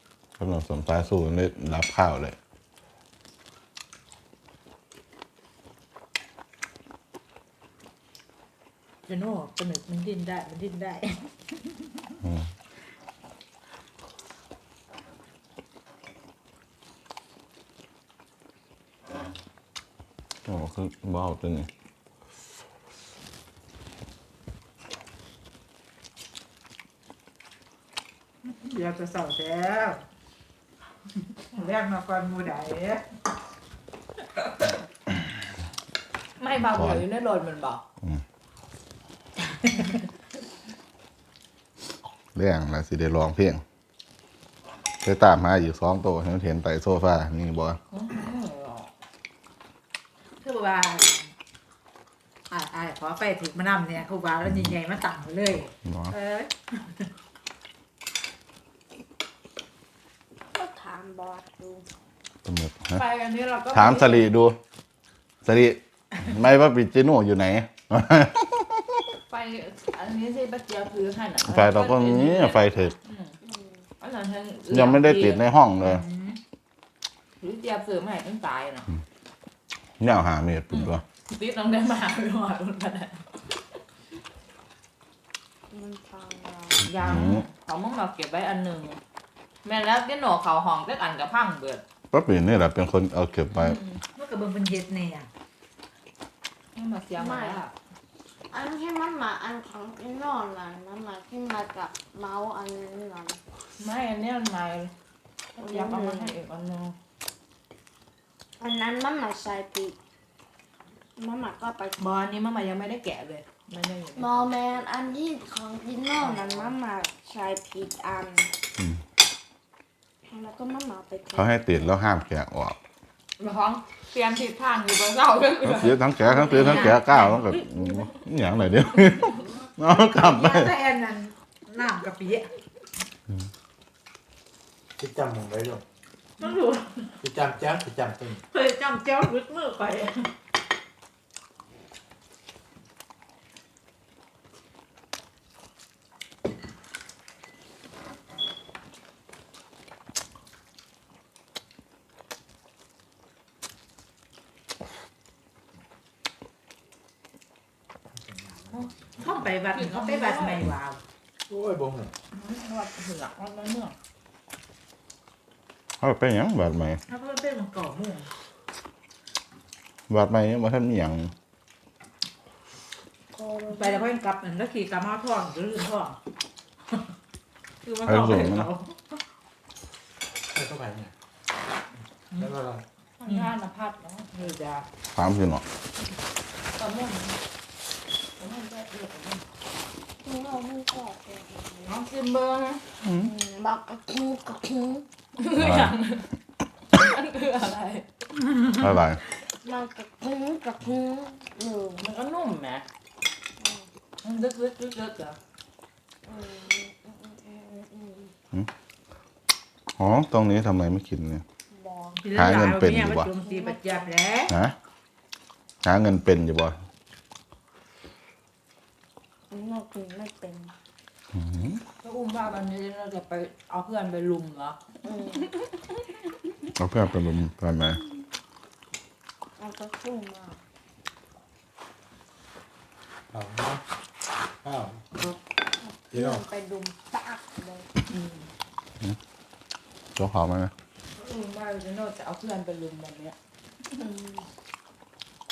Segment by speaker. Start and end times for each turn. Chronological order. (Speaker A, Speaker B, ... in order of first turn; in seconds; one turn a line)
Speaker A: 0.4-2.4
Speaker B: 9.1-12.2
Speaker A: 12.2-12.5
Speaker A: 20.5-21.7
Speaker B: 28.4-30.0
Speaker B: 31.2-33.0
Speaker C: 36.4-37.8
Speaker A: 36.7-37.1
Speaker B: 39.5-40.0
Speaker A: 42.4-43.6
Speaker A: 45.0-47.8
Speaker C: 47.9-48.9
Speaker B: 50.4-51.3
Speaker B: 52.5-57.1
Speaker A: 55.9-56.1
Speaker D: 60.5-61.9
Speaker A: 62.5-63.0
Speaker C: 62.9-64.3
Speaker A: 63.7-64.6
Speaker A: 65.4-69.0
Speaker C: 69.3-73.4
Speaker A: 71.4-73.0
Speaker D: 73.4-73.9
Speaker C: 74.0-75.4
Speaker A: 74.7-76.0
Speaker B: 75.8-76.4
Speaker C: 77.4-78.9
Speaker A: 80.0-81.0
Speaker C: 80.7-83.2
Speaker D: 85.7-86.9
Speaker C: 86.8-89.0
Speaker A: 87.0-87.5
Speaker C: 89.6-91.8
Speaker A: 92.1-93.8
Speaker C: 93.5-94.0
Speaker B: 94.1-95.3
Speaker C: 96.8-97.7
Speaker D: 97.1-97.6
Speaker D: 98.5-103.4
Speaker C: 103.8-104.9
Speaker C: 105.5-107.0
Speaker D: 105.6-106.4
Speaker D: 108.6-110.0
Speaker D: 111.2-112.1
Speaker C: 112.0-114.5
Speaker D: 114.2-118.5
Speaker C: 116.2-116.8
Speaker D: 120.3-121.5
Speaker A: 121.3-122.8
Speaker C: 123.4-127.0
Speaker A: 125.6-130.7
Speaker B: 126.5-128.1
Speaker B: 130.1-132.5
Speaker E: 135.0-135.8
Speaker B: 136.4-137.2
Speaker E: 137.2-138.4
Speaker B: 138.5-140.3
Speaker E: 158.2-159.0
Speaker B: 159.2-161.0
Speaker C: 159.7-160.7
Speaker E: 161.5-162.1
Speaker C: 162.3-164.0
Speaker A: 166.0-167.0
Speaker B: 167.1-168.3
Speaker A: 170.1-171.3
Speaker D: 173.3-174.1
Speaker B: 173.7-176.2
Speaker B: 177.8-179.2
Speaker A: 178.0-178.7
Speaker E: 180.5-181.1
Speaker E: 182.4-182.8
Speaker C: 183.2-184.6
Speaker B: 183.2-183.5
Speaker B: 184.3-184.9
Speaker A: 185.1-185.6
Speaker C: 186.8-187.4
Speaker C: 188.4-189.4
Speaker D: 190.2-192.0
Speaker C: 191.9-192.8
Speaker A: 193.0-193.3
Speaker D: 193.1-195.1
Speaker C: 195.4-196.3
Speaker A: 195.5-196.0
Speaker C: 196.9-198.1
Speaker A: 198.6-199.2
Speaker D: 199.6-202.1
Speaker C: 202.0-202.8
Speaker D: 203.6-203.9
Speaker C: 204.2-205.4
Speaker D: 206.2-208.3
Speaker A: 210.0-211.4
Speaker D: 211.7-212.2
Speaker B: 212.2-214.6
Speaker A: 212.3-213.3
Speaker D: 213.4-214.1
Speaker A: 214.5-214.8
Speaker A: 215.8-216.8
Speaker D: 219.5-220.7
Speaker A: 221.3-221.8
Speaker C: 222.0-224.8
Speaker D: 225.0-225.6
Speaker A: 226.8-228.0
Speaker D: 229.6-230.6
Speaker E: 233.3-233.8
Speaker E: 234.6-235.0
Speaker D: 235.9-237.9
Speaker C: 238.1-238.5
Speaker A: 240.2-240.7
Speaker C: 241.2-243.3
Speaker D: 243.9-244.4